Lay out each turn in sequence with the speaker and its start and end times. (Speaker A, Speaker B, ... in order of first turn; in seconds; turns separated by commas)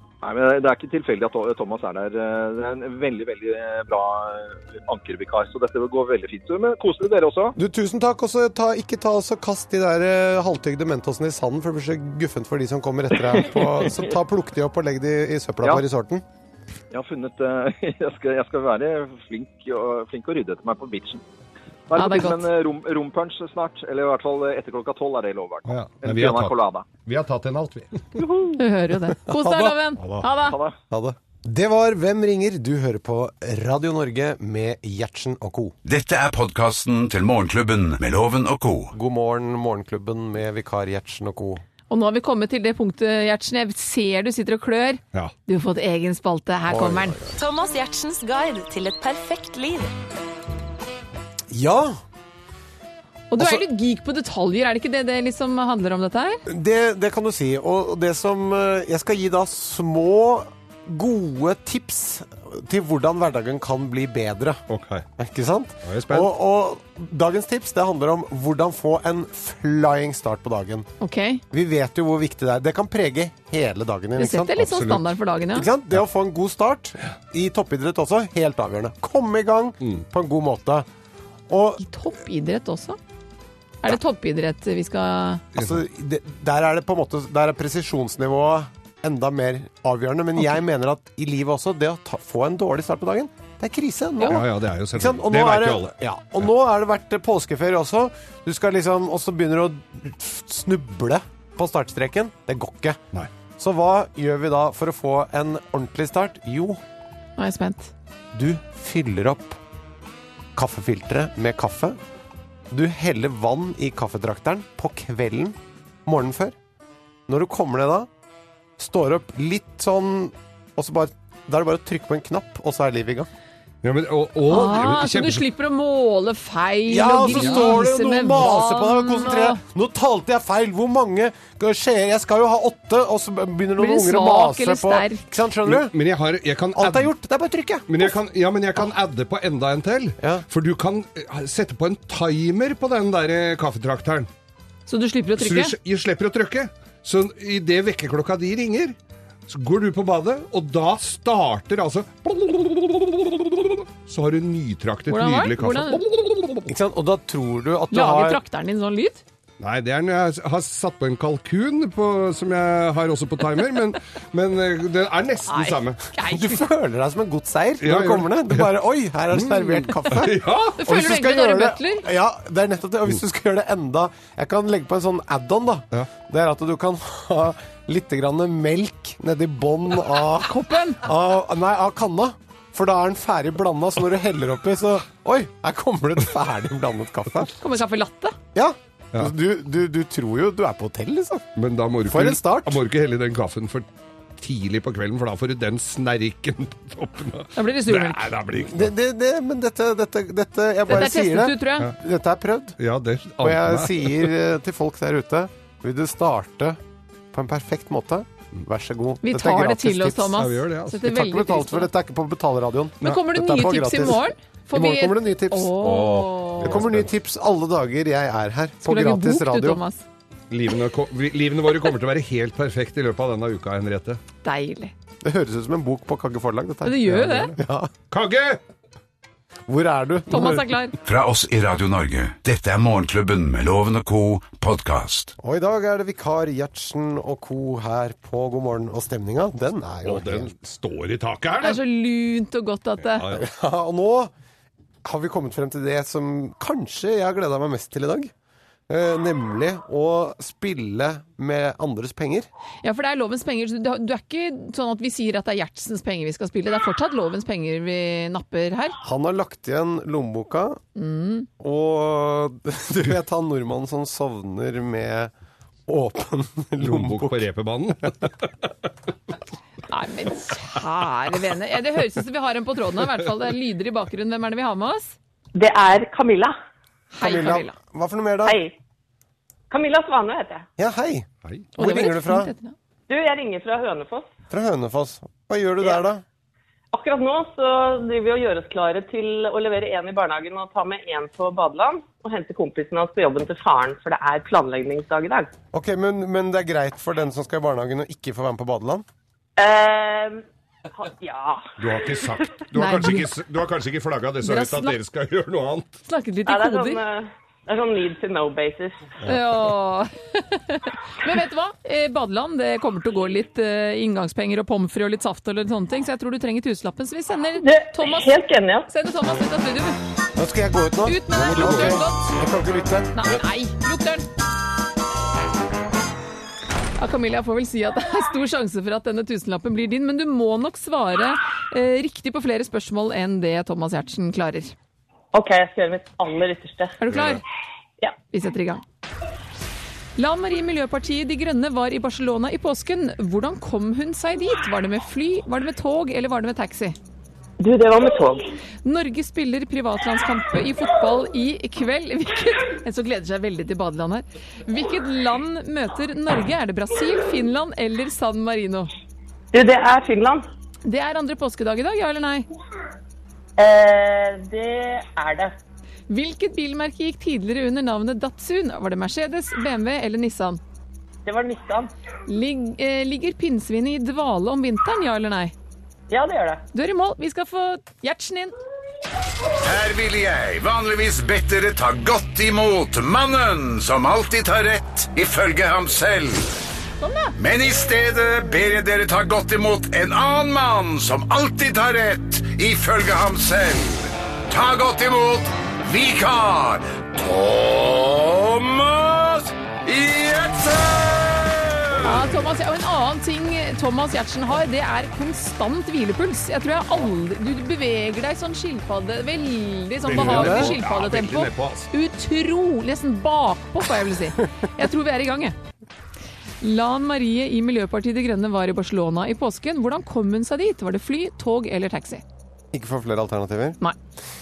Speaker A: 0.2-7.6, Speaker B: 7.6-16.2, Speaker A: 13.4-14.1, Speaker A: 16.9-21.2, Speaker A: 21.9-26.9, Speaker C: 21.9-22.4, Speaker D: 25.7-28.0, Speaker A: 28.2-28.6, Speaker C: 28.6-30.6, Speaker B: 29.3-29.9, Speaker D: 30.0-30.3, Speaker A: 30.4-30.8, Speaker B: 30.9-35.7, Speaker E: 35.9-38.9, Speaker B: 38.9-41.6, Speaker C: 41.9-47.2, Speaker B: 46.7-47.4, Speaker F: 47.3-49.9, Speaker B: 51.5-52.0, Speaker C: 53.3-56.4, Speaker B: 56.5-64.6, Speaker D: 64.7-65.0, Speaker B: 65.2-70.9, Speaker D: 65.9-66.3, Speaker C: 71.0-71.4, Speaker B: 71.5-74.9, Speaker C: 74.2-75.7, Speaker D: 74.6-75.0, Speaker B: 75.5-80.9, Speaker B: 81.5-81.8, Speaker C: 81.8-83.0, Speaker C: 83.8-85.4, Speaker D: 85.5-85.8, Speaker B: 85.5-103.0, Speaker D: 94.2-95.9, Speaker B: 103.6-106.8, Speaker C: 107.4-107.9, Speaker B: 108.3-109.6, Speaker B: 110.5-112.0, Speaker B: 112.7-116.6, Speaker B: 117.3-118.1, Speaker B: 118.8-123.3, Speaker D: 123.8-125.5, Speaker C: 124.5-129.6, Speaker B: 126.9-135.9, Speaker D: 127.3-127.8, Speaker C: 133.8-135.3, Speaker D: 135.7-137.1, Speaker B: 136.8-138.2, Speaker D: 137.9-144.3, Speaker B: 140.2-140.5, Speaker C: 144.9-145.8, Speaker D: 145.4-148.9, Speaker D: 149.5-156.7, Speaker C: 155.1-156.0, Speaker B: 156.7-158.4, Speaker C: 157.9-159.2, Speaker D: 159.6-166.0, Speaker C: 165.5-166.6, Speaker B: 166.2-187.5, Speaker D: 167.8-170.8, Speaker C: 170.8-172.1, Speaker C: 180.4-181.0, Speaker C: 187.6-188.4, Speaker B: 188.6-191.5, Speaker D: 191.6-193.9, Speaker B: 192.1-192.8, Speaker D: 194.4-198.9, Speaker C: 197.6-198.3, Speaker B: 198.7-202.8, Speaker C: 200.9-201.9, Speaker D: 202.8-204.3, Speaker B: 203.4-206.8, Speaker B: 207.3-210.4, Speaker C: 209.2-211.9, Speaker D: 210.3-211.1, Speaker B: 211.0-215.9, Speaker C: 213.0-216.8, Speaker D: 215.8-217.1, Speaker B: 216.6-219.8, Speaker C: 218.8-220.1, Speaker D: 220.5-224.2, Speaker C: 224.4-224.9, Speaker B: 225.2-227.9, Speaker C: 226.8-227.5, Speaker D: 227.1-227.6, Speaker D: 228.1-228.6, Speaker B: 229.7-230.6, Speaker C: 230.3-230.9, Speaker E: 231.0-235.3, Speaker B: 235.4-240.5, Speaker D: 240.0-241.8, Speaker C: 241.6-243.2, Speaker D: 243.1-243.4, Speaker B: 243.3-244.3, Speaker B: 245.0-248.3, Speaker B: 248.9-252.5, Speaker C: 252.8-259.0, Speaker B: 259.0-260.8, Speaker C: 261.0-261.5, Speaker B: 261.6-265.3, Speaker B: 265.9-267.4, Speaker D: 266.8-268.3, Speaker C: 269.9-275.2, Speaker G: 275.6-276.6, Speaker C: 277.1-277.8, Speaker B: 277.2-278.6, Speaker G: 278.5-278.8, Speaker G: 279.7-280.7, Speaker B: 280.8-282.5, Speaker C: 281.8-282.8, Speaker G: 283.1-284.3, Speaker B: 284.5-286.2, Speaker G: 286.9-295.5, Speaker B: 295.7-299.1, Speaker G: 299.6-302.4, Speaker D: 301.8-305.9, Speaker C: 302.7-303.3, Speaker C: 304.4-305.0, Speaker C: 306.1-307.0, Speaker G: 306.5-309.1, Speaker C: 309.2-318.3, Speaker G: 317.6-318.9, Speaker C: 318.9-320.0, Speaker B: 320.4-323.1, Speaker C: 321.1-322.3, Speaker D: 321.3-322.0, Speaker C: 323.1-324.3, Speaker C: 327.0-334.7, Speaker G: 335.3-337.0, Speaker C: 337.0-337.4, Speaker D: 337.1-337.4, Speaker C: 338.3-338.8, Speaker C: 340.2-347.0, Speaker G: 347.6-348.5, Speaker C: 348.9-358.9, Speaker G: 359.5-360.5, Speaker C: 360.9-362.5, Speaker G: 363.6-365.6, Speaker C: 366.1-370.6, Speaker G: 371.3-371.9, Speaker C: 372.3-375.5, Speaker G: 376.1-376.6, Speaker C: 376.7-378.5, Speaker E: 379.6-386.6, Speaker C: 387.0-387.3, Speaker E: 387.4-402.3, Speaker C: 402.0-415.6, Speaker D: 410.0-411.9, Speaker B: 410.1-410.8, Speaker C: 416.6-422.2, Speaker B: 422.7-423.8